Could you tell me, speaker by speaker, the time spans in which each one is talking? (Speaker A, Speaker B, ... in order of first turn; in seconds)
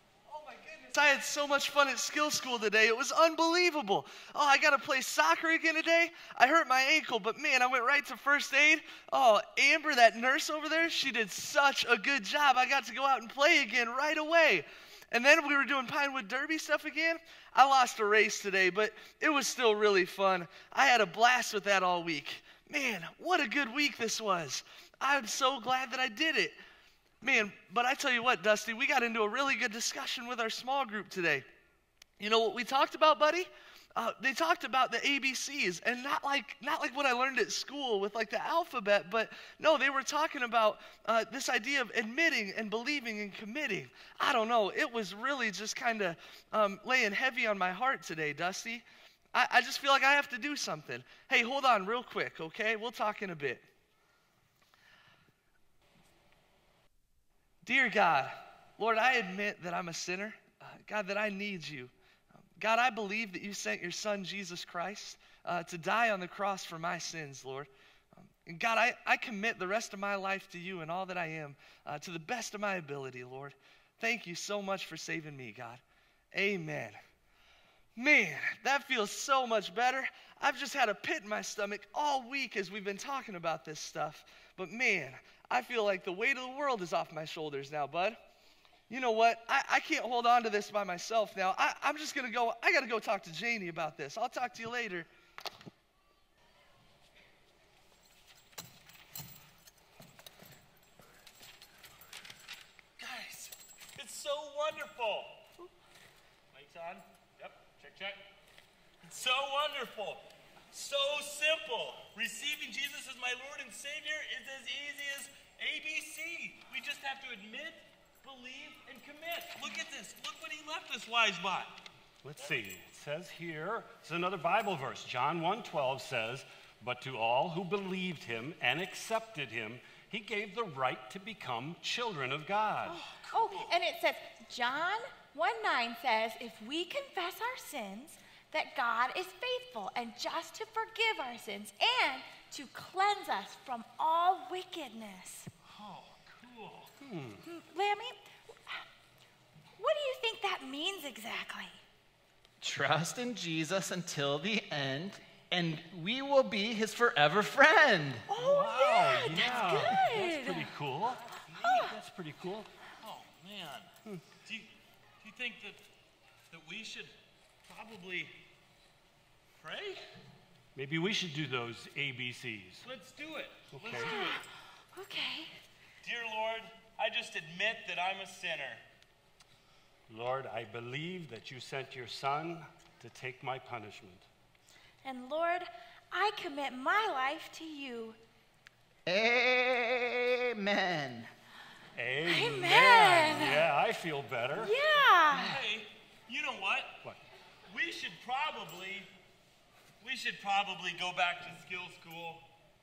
Speaker A: 0.5-0.8, 103.0-105.4, 106.5-108.2, 109.0-121.8, 133.1-133.7, 145.7-146.9, 163.0-163.9, 164.4-164.7, 165.2-165.8, 166.5-167.1, 167.7-168.3, 169.6-170.0, 172.8-174.4, 176.0-178.8, 195.3-197.0, 197.7-199.1, 200.0-202.5
Speaker B: 0.7-26.6, 27.2-31.4, 32.2-53.6, 57.6-77.0, 78.0-88.2, 88.9-95.1
Speaker C: 122.2-133.0, 147.0-147.4, 158.4-162.7, 170.7-172.8, 173.7-174.1, 180.1-184.2, 191.9-194.7
Speaker D: 132.8-145.5, 147.4-148.8, 149.8-151.8, 158.3-160.7, 161.6-161.9, 173.9-175.5, 185.0-188.2, 192.2-193.7, 194.6-195.6
Speaker E: 152.6-158.3, 189.1-191.3